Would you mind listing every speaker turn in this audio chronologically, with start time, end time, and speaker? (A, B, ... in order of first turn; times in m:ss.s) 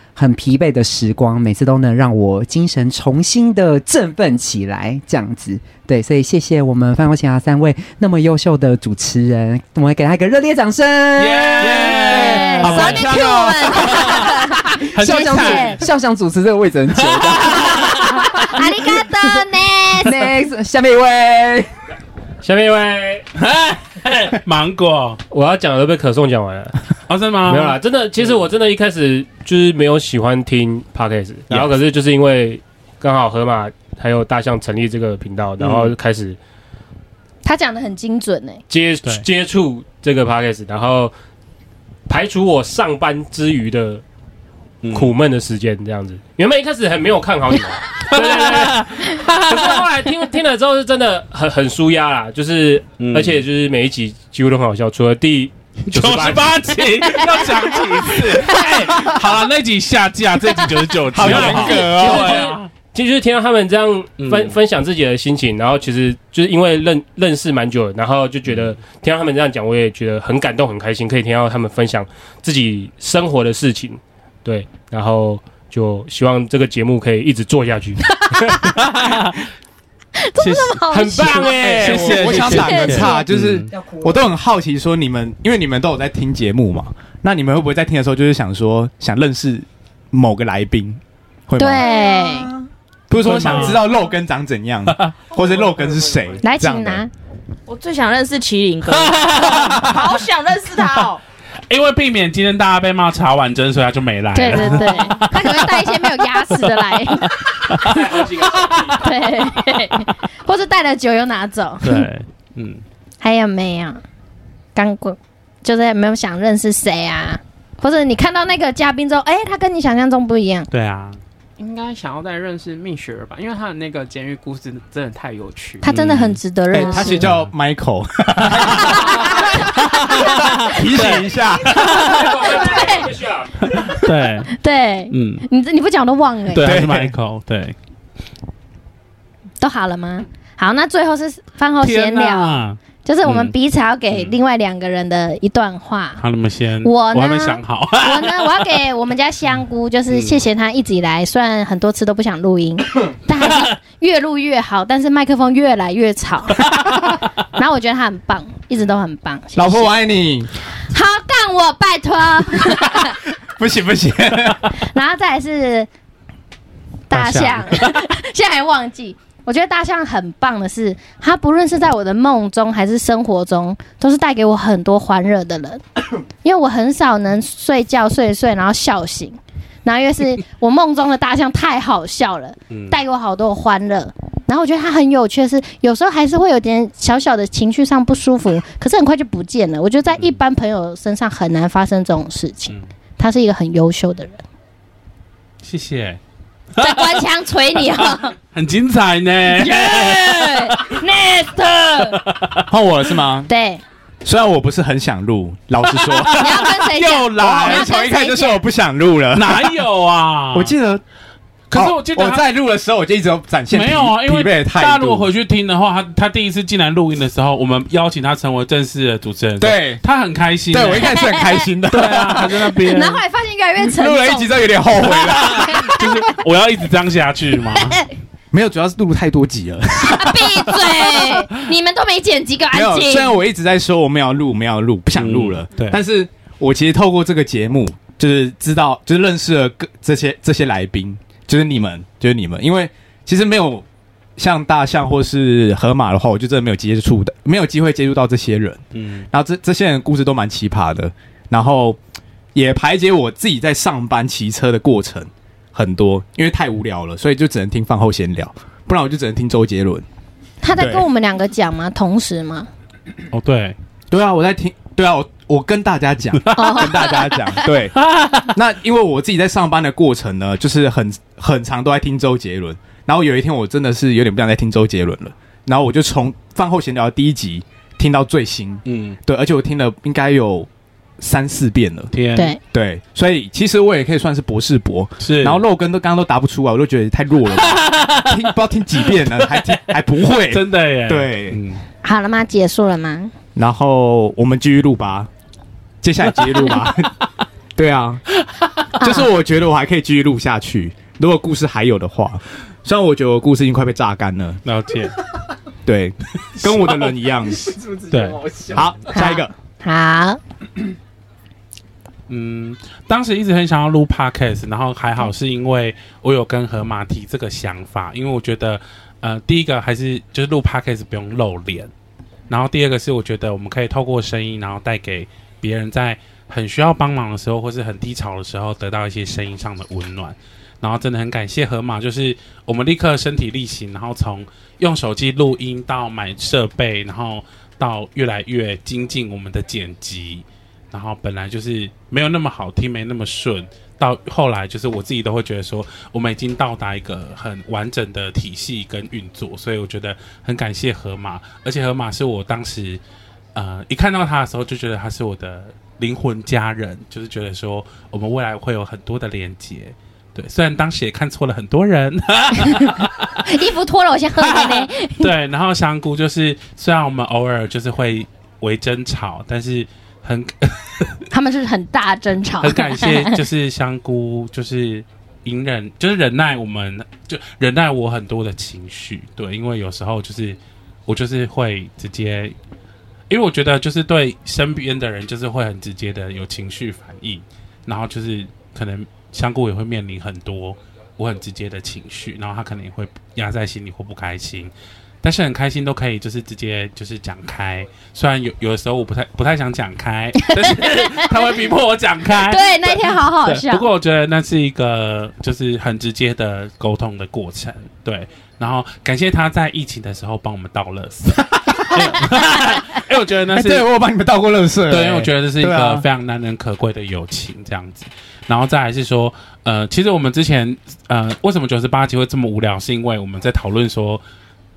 0:00.2-0:12.0 A
0:11.2-0:13.1 B
0:11.6-0:14.1 C
0:12.0-0:15.8 D
0:13.7-0:14.3 B
0:14.8-0:19.3 A
0:14.9-0:15.8 B
0:17.0-0:18.3 B
0:18.3-0:20.2 D
0:20.0-0:21.7 A
0:22.4-0:23.3 E
0:23.4-0:25.2 B
0:25.3-0:26.8 E
0:27.1-0:27.8 B
0:27.4-0:36.4 E
0:35.6-0:35.9 B
0:37.4-0:38.6 D
0:38.7-0:41.1 E
0:42.1-0:44.0 E
0:44.8-0:45.1 B
0:44.9-0:56.5 E
0:48.0-0:49.8 B
0:53.0-0:53.4 B
0:55.9-1:02.7 B
0:58.4-0:58.6 D
1:01.1-1:02.4 C
1:01.2-1:18.3 E
1:04.2-1:04.6 B
1:18.3-1:18.9 D
1:18.8-1:19.3 B
1:20.2-1:23.3 D
1:20.4-1:23.7 B
1:20.9-1:22.5 E
1:21.5-1:31.9 C
1:23.7-1:24.3 A
1:31.6-1:32.5 D
1:31.8-1:32.7 A
1:33.1-1:37.0 C
1:33.1-1:33.8 B
1:36.4-1:37.1 D
1:37.7-1:41.2 F
1:39.0-1:39.8 B
1:41.7-1:46.6 B
1:44.3-1:47.3 D
1:47.2-1:48.1 B
1:47.8-1:49.2 E
1:48.9-1:52.0 D
1:51.8-1:52.8 B
1:53.2-1:54.0 D
1:54.7-2:00.7 D
2:00.7-2:01.2 B
2:01.6-2:05.8 G
2:05.8-2:07.3 D
2:05.8-2:06.4 B
2:06.7-2:09.4 C
2:07.2-2:07.5 B
2:08.4-2:08.9 B
2:08.8-2:09.4 D
2:09.9-2:12.3 B
2:10.0-2:11.7 C
2:11.8-2:14.0 E
2:12.0-2:13.1 D
2:13.8-2:14.5 B
2:14.5-2:16.8 D
2:15.1-2:15.4 B
2:16.5-2:17.8 B
2:16.6-2:17.1 C
2:19.6-2:26.2 D
2:21.8-2:23.5 B
2:26.2-2:28.6 B
2:26.8-2:36.7 D
2:30.1-2:30.4 B
2:37.5-2:39.9 D
2:39.5-2:40.5 C
2:40.9-2:43.2 D
2:43.0-2:44.7 C
2:44.9-2:45.9 D
2:47.1-2:55.8 D
2:47.1-2:48.0 B
2:56.4-3:14.4 D
3:02.7-3:03.0 B
3:10.1-3:10.4 B
3:15.6-3:16.2 B
3:16.8-3:18.3 D
3:16.8-3:17.2 B
3:18.5-3:21.0 B
3:19.6-3:22.2 D
3:21.9-3:22.6 B
3:22.7-3:23.5 C
3:23.5-3:23.8 D
3:24.2-3:26.7 C
3:25.8-3:27.9 B
3:26.3-3:28.6 D
3:27.3-3:29.8 C
3:29.3-3:30.7 B
3:30.5-3:31.0 C
3:31.7-3:32.4 B
3:31.7-3:35.3 C
3:33.7-3:41.2 B
3:39.6-3:40.0 C
3:40.7-3:42.7 C
3:41.1-3:41.6 D
3:41.9-3:43.2 B
3:42.9-3:46.1 D
3:43.8-3:46.0 C
3:45.5-3:48.0 B
3:47.8-3:48.0 D
3:48.5-3:50.5 C
3:50.0-3:53.4 D
3:52.7-4:03.8 C
3:55.2-3:56.0 B
4:04.4-4:12.0 C
4:08.9-4:09.3 B
4:12.5-4:20.0 C
4:20.6-4:22.7 D
4:20.8-4:21.0 C
4:23.3-4:23.8 B
4:24.1-4:42.1 C
4:26.5-4:27.4 D
4:28.0-4:28.5 B
4:38.8-4:39.2 B
4:42.1-4:42.5 B
4:42.7-4:51.6 C
4:45.2-4:45.6 B
4:47.7-4:48.3 B
4:50.3-4:51.8 B
4:52.0-4:53.3 D
4:53.5-4:55.3 C
4:56.0-4:57.1 C
4:57.7-4:58.3 C
4:58.9-5:04.6 C
4:59.0-4:59.2 D
5:04.6-5:05.2 B
5:05.8-5:07.7 C
5:06.5-5:06.7 B
5:07.4-5:08.9 A
5:08.1-5:08.4 B
5:08.7-5:09.5 C
5:09.1-5:10.4 D
5:12.3-5:21.9 B
5:22.5-5:53.0 B
5:53.5-6:03.4 B
6:03.4-6:05.3 D
6:04.4-6:11.2 B
6:11.3-6:13.4 D
6:12.6-6:22.5 B
6:23.3-6:34.7 B
6:35.2-6:53.8 B
6:40.4-6:41.3 D
6:42.4-6:43.8 D
6:53.5-6:56.0 C
6:54.9-7:04.2 B